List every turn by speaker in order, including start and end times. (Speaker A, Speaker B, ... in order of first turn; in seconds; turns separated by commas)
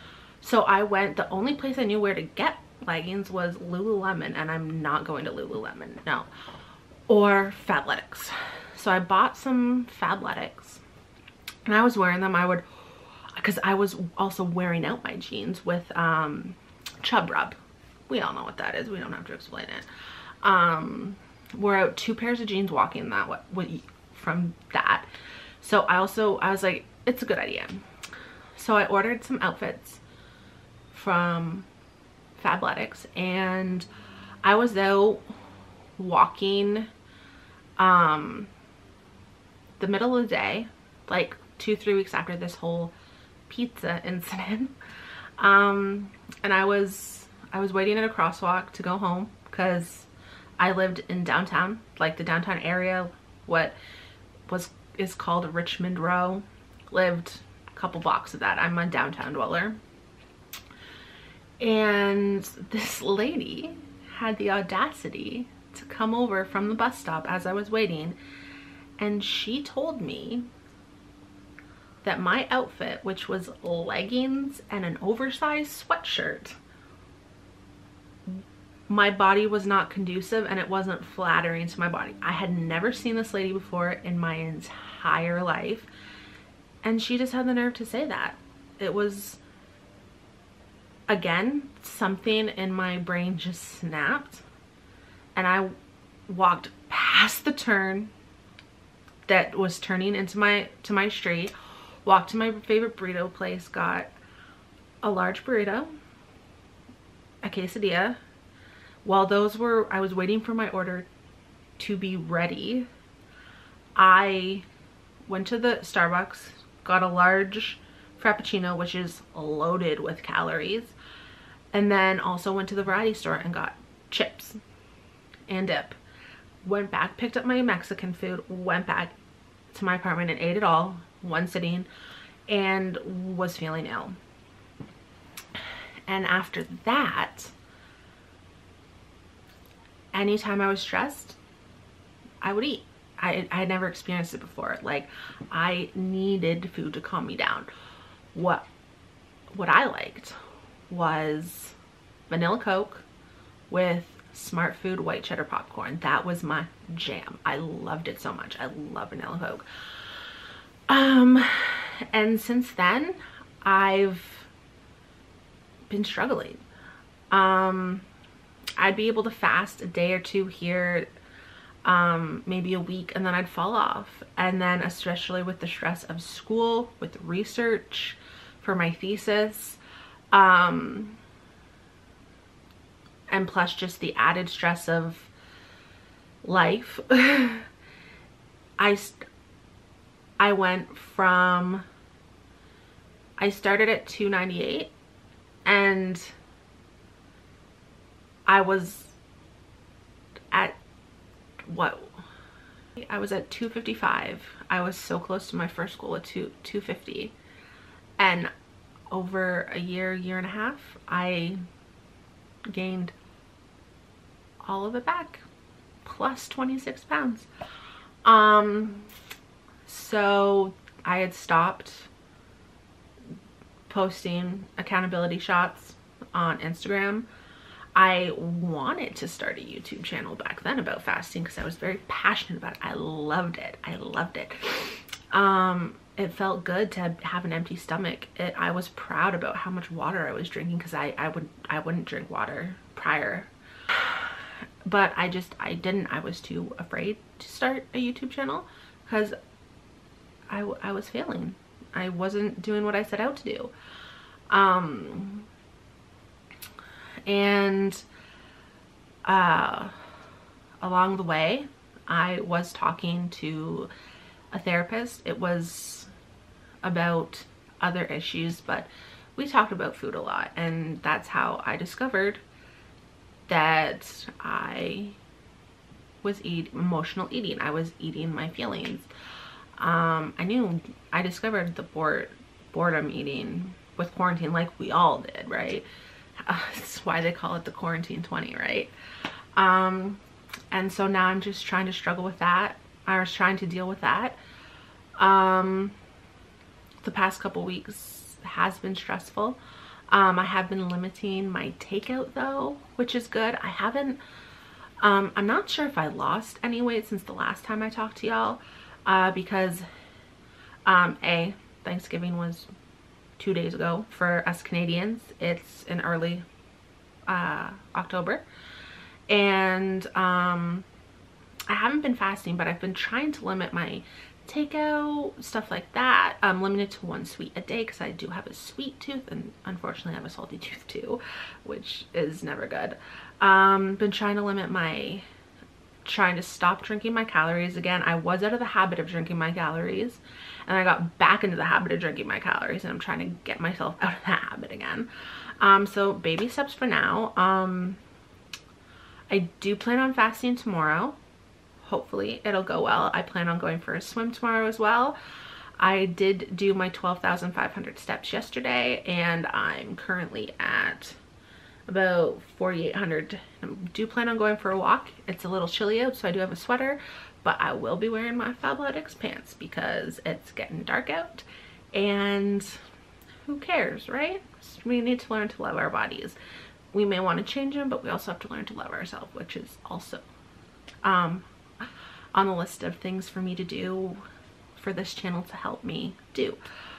Speaker A: 0.4-6.3, Speaker A: 7.1-10.8, Speaker A: 11.7-12.7, Speaker A: 13.3-17.6, Speaker A: 18.1-19.9, Speaker A: 20.4-25.1, Speaker A: 25.6-27.9, Speaker A: 28.6-30.0, Speaker A: 30.9-31.7, Speaker A: 32.4-33.9, Speaker A: 34.4-35.3, Speaker A: 36.0-36.9, Speaker A: 37.8-38.5, Speaker A: 39.8-42.9, Speaker A: 43.5-44.8, Speaker A: 45.4-50.1, Speaker A: 50.6-53.8, Speaker A: 54.5-59.8, Speaker A: 61.6-68.2, Speaker A: 69.0-70.5, Speaker A: 72.0-76.6, Speaker A: 78.9-85.9, Speaker A: 86.8-89.4, Speaker A: 91.1-94.4, Speaker A: 95.4-95.7, Speaker A: 96.3-98.1, Speaker A: 99.3-101.5, Speaker A: 102.0-104.1, Speaker A: 105.0-105.9, Speaker A: 107.4-108.2, Speaker A: 109.0-111.1, Speaker A: 111.8-112.9, Speaker A: 114.0-114.7, Speaker A: 115.3-121.0, Speaker A: 121.7-124.6, Speaker A: 125.5-126.0, Speaker A: 126.6-129.2, Speaker A: 129.7-131.9, Speaker A: 132.5-134.2, Speaker A: 136.1-137.5, Speaker A: 140.1-141.4, Speaker A: 142.4-147.7, Speaker A: 148.3-148.7, Speaker A: 149.5-150.3, Speaker A: 150.9-151.8, Speaker A: 152.3-153.1, Speaker A: 153.7-159.7, Speaker A: 160.9-164.5, Speaker A: 165.9-166.6, Speaker A: 167.3-168.1, Speaker A: 168.8-171.1, Speaker A: 171.8-179.8, Speaker A: 180.3-181.2, Speaker A: 183.3-185.3, Speaker A: 186.4-187.7, Speaker A: 188.8-189.2, Speaker A: 190.4-191.9, Speaker A: 193.4-194.9, Speaker A: 195.7-196.3, Speaker A: 198.5-199.1, Speaker A: 200.5-200.8, Speaker A: 201.6-202.2, Speaker A: 203.0-207.3, Speaker A: 208.2-208.5, Speaker A: 209.1-211.6, Speaker A: 212.7-213.2, Speaker A: 214.6-215.4, Speaker A: 216.0-217.5, Speaker A: 218.2-219.1, Speaker A: 219.9-222.1, Speaker A: 223.9-227.3, Speaker A: 227.9-244.4, Speaker A: 244.9-249.3, Speaker A: 250.5-253.7, Speaker A: 254.5-255.5, Speaker A: 257.3-258.0, Speaker A: 259.3-260.0, Speaker A: 260.8-263.9, Speaker A: 264.5-266.1, Speaker A: 266.8-272.4, Speaker A: 273.5-275.2, Speaker A: 276.2-279.1, Speaker A: 279.8-285.9, Speaker A: 286.4-288.9, Speaker A: 289.6-294.4, Speaker A: 295.2-296.0, Speaker A: 297.0-299.6, Speaker A: 300.1-304.2, Speaker A: 305.0-309.9, Speaker A: 310.9-312.7, Speaker A: 313.4-316.4, Speaker A: 317.3-318.4, Speaker A: 319.3-320.9, Speaker A: 321.7-335.2, Speaker A: 336.1-345.1, Speaker A: 345.6-348.0, Speaker A: 349.3-351.2, Speaker A: 351.8-355.2, Speaker A: 355.8-361.2, Speaker A: 361.9-372.8, Speaker A: 373.5-376.4, Speaker A: 376.9-380.2, Speaker A: 381.0-381.5, Speaker A: 382.3-384.2, Speaker A: 384.8-386.6